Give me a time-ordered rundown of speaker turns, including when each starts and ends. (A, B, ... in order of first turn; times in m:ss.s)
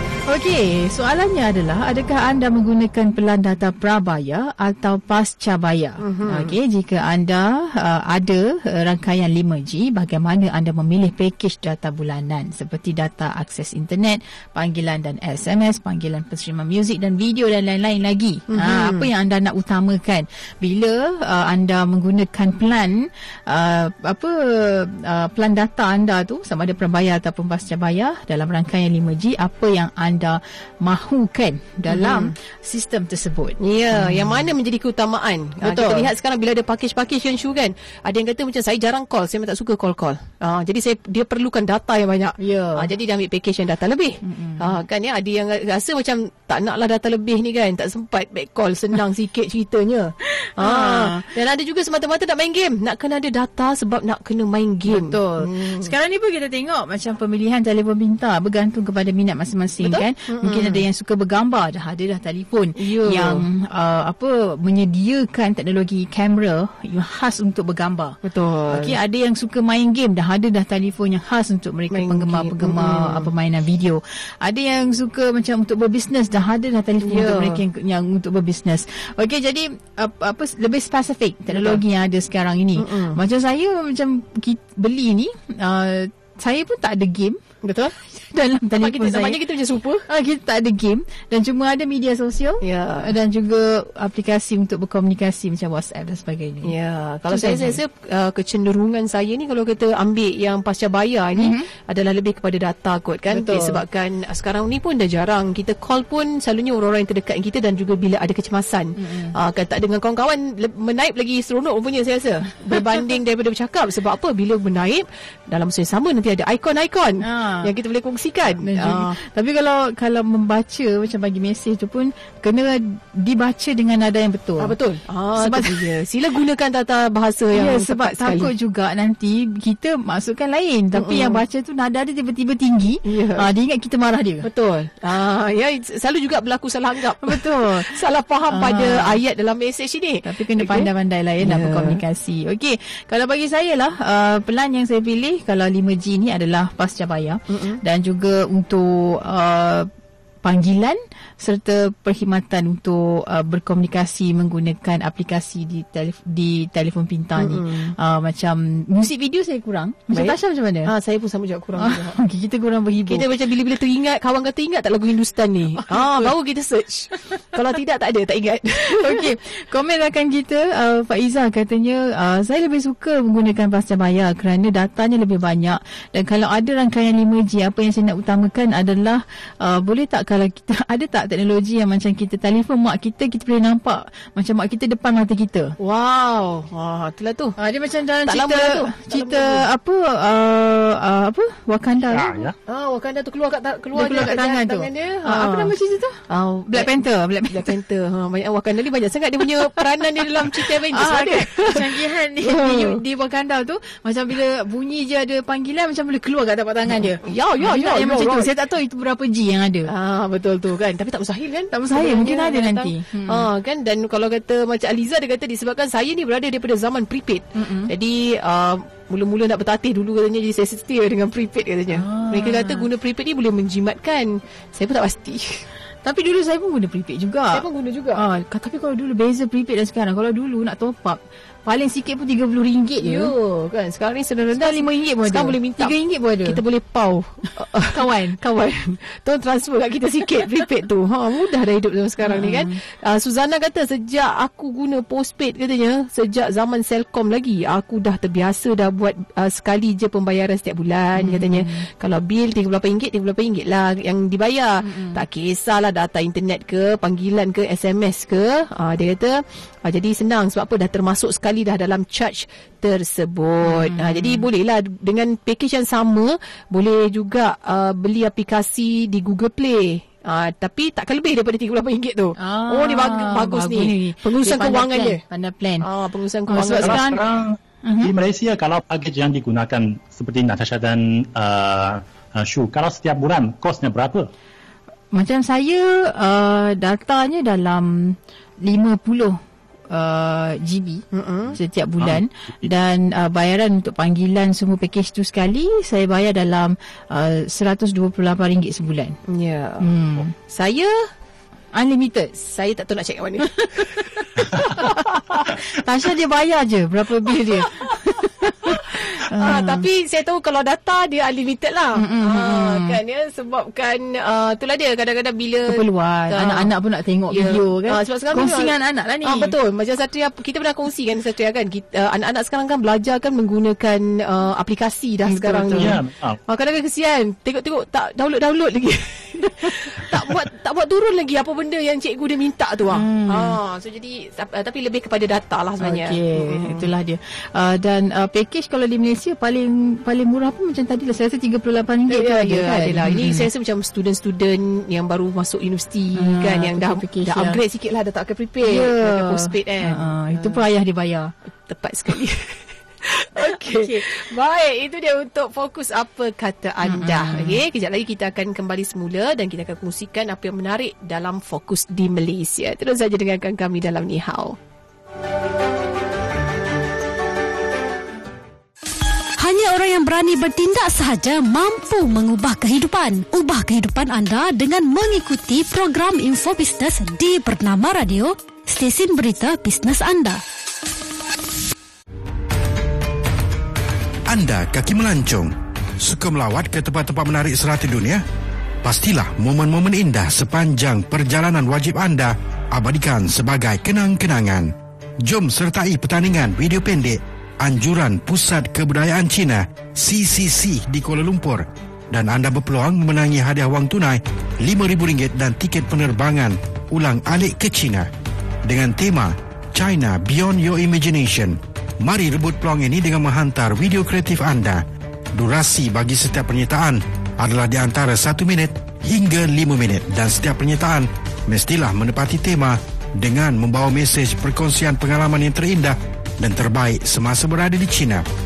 0:00.3-0:34.5 A
0:06.0-0:06.6 B
0:18.5-0:19.1 B
0:31.9-0:32.3 B
0:33.6-0:55.9 B
0:35.6-0:36.1 A
0:42.4-0:42.9 A
0:44.2-0:44.8 A
0:50.4-0:51.3 A
0:54.9-1:08.2 A
0:59.8-1:00.8 B
1:02.8-1:03.4 B
1:08.2-1:09.0 B
1:08.7-1:27.4 A
1:11.9-1:13.3 B
1:17.0-1:17.6 B
1:21.5-1:21.8 B
1:22.8-1:23.2 B
1:27.6-1:28.0 B
1:28.0-1:29.4 A
1:28.8-1:30.1 B
1:30.1-1:36.7 A
1:32.6-1:33.1 B
1:36.6-1:59.2 B
1:37.3-1:37.8 A
1:41.4-1:41.6 A
1:43.3-1:43.8 A
1:49.0-1:49.3 A
1:57.2-1:57.7 A
1:58.6-2:04.8 A
2:04.6-2:08.5 B
2:05.4-2:05.9 A
2:07.5-2:14.5 A
2:10.9-2:11.4 B
2:13.0-2:13.4 B
2:14.4-2:20.9 B
2:17.2-2:18.0 A
2:18.5-2:19.2 A
2:20.2-2:29.9 A
2:21.4-2:22.0 B
2:27.5-2:27.8 B
2:30.4-2:40.9 A
2:37.4-2:38.0 B
2:40.1-2:42.2 B
2:41.8-2:43.2 A
2:43.1-2:49.3 B
2:45.8-2:46.3 A
2:48.9-3:05.7 A
3:05.8-3:07.6 B
3:07.6-3:12.3 A
3:08.2-3:09.6 B
3:12.1-3:12.6 C
3:12.7-3:15.7 B
3:13.9-3:16.2 A
3:16.3-3:16.9 B
3:16.7-3:17.7 A
3:17.5-3:23.0 B
3:20.6-3:29.9 A
3:27.2-3:28.5 B
3:29.9-3:45.7 B
3:31.7-3:33.5 A
3:37.6-3:37.9 A
3:41.9-3:42.9 A
3:46.0-3:47.6 A
3:47.5-3:48.2 B
3:48.2-3:53.3 A
3:53.0-4:35.2 B
3:54.6-3:56.6 A
3:57.8-3:58.4 A
4:02.2-4:02.8 A
4:11.2-4:11.9 A
4:14.8-4:15.2 A
4:23.6-4:24.4 A
4:32.4-4:35.9 A
4:35.8-4:37.1 B
4:36.5-4:37.2 A
4:36.8-4:44.3 C
4:37.8-4:38.1 A
4:45.1-4:59.2 A
4:51.1-4:51.6 B
4:59.3-5:01.0 B
4:59.8-5:00.3 A
5:01.7-5:02.4 A
5:02.4-5:05.6 B
5:03.6-5:09.8 A
5:07.6-5:07.9 B
5:08.6-5:16.7 B
5:12.0-5:13.0 A
5:15.7-5:19.5 A
5:17.3-5:36.9 B
5:25.3-5:26.0 A
5:25.8-5:26.4 C
5:32.9-5:33.6 A
5:35.8-5:43.4 A
5:42.1-5:50.6 B
5:46.2-5:47.6 A
5:48.6-5:51.3 A
5:51.7-6:04.6 B
5:53.5-5:54.1 A
5:56.9-5:57.6 A
6:09.4-6:20.4 D
6:24.3-6:28.2 E
6:28.8-6:34.7 E
6:35.2-6:48.1 E
6:48.6-6:54.8 E
6:55.4-7:08.2 E